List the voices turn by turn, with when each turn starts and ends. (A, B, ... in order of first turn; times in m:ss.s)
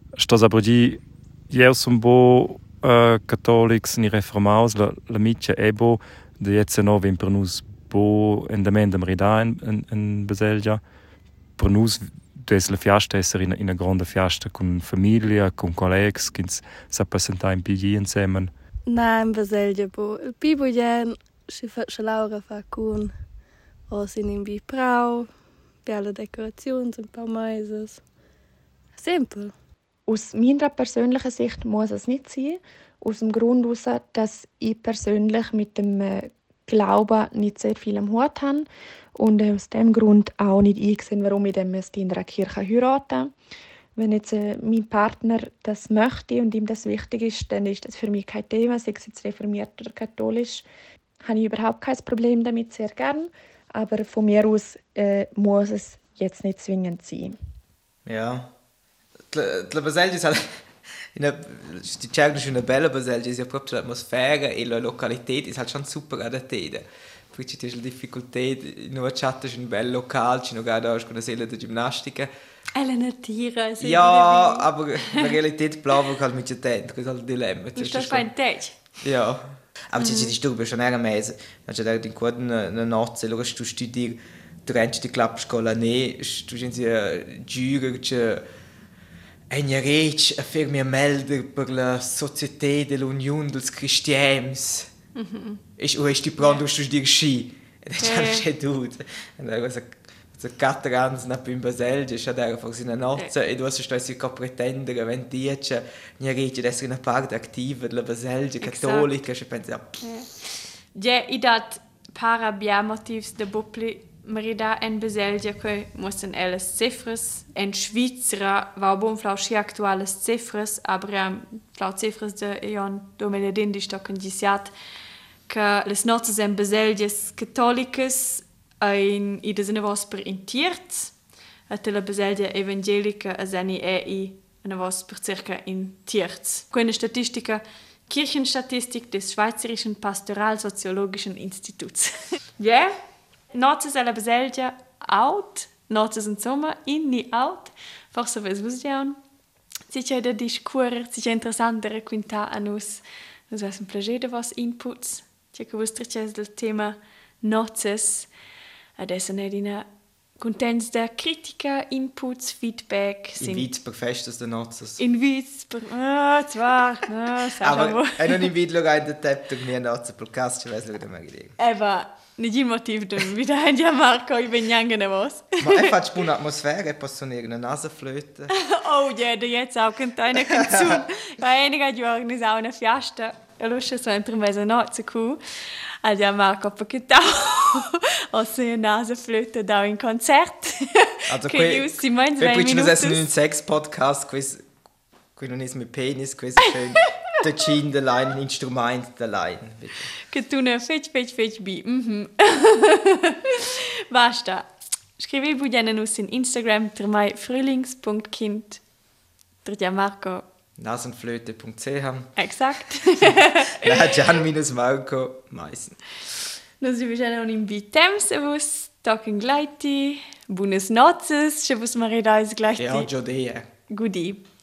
0:00.2-0:10.8 A
0:11.6-0:18.5 A
0:18.9-0:23.1 B
0:23.9-0:25.3 B
0:25.8-0:28.0 B
0:29.0-0:29.5 B
0:30.1-0:43.3 C
0:44.0-0:50.7 C
0:51.2-0:57.4 C
0:58.0-0:58.5 D
0:59.3-1:00.6 D
1:01.2-1:12.3 D
1:12.8-1:15.4 E
1:13.8-1:18.3 D
1:17.8-1:18.8 E
1:19.0-1:28.4 D
1:20.0-1:20.3 E
1:29.5-1:34.9 D
1:35.2-1:35.6 E
1:35.8-1:50.0 D
1:38.0-1:38.4 E
1:48.6-1:49.1 E
1:50.0-1:50.3 E
1:50.9-2:04.7 E
2:05.5-2:11.1 E
2:11.7-2:22.9 E
2:23.5-2:29.2 E
2:29.9-2:38.3 E
2:39.0-2:39.9 E
2:40.4-2:43.7 E
2:43.4-2:45.0 D
2:45.0-2:48.5 E
2:47.6-2:51.6 D
2:51.6-2:56.0 E
2:55.6-2:58.5 D
2:58.5-3:05.4 E
3:00.4-3:01.1 D
3:06.0-3:13.3 E
3:11.3-3:14.6 D
3:15.4-3:20.1 D
3:20.3-3:28.8 E
3:29.6-3:30.4 E
3:30.8-3:32.4 D
3:32.4-3:34.0 E
3:33.2-3:36.0 D
3:36.8-3:43.1 E
3:42.8-3:43.7 D
3:43.9-3:44.4 E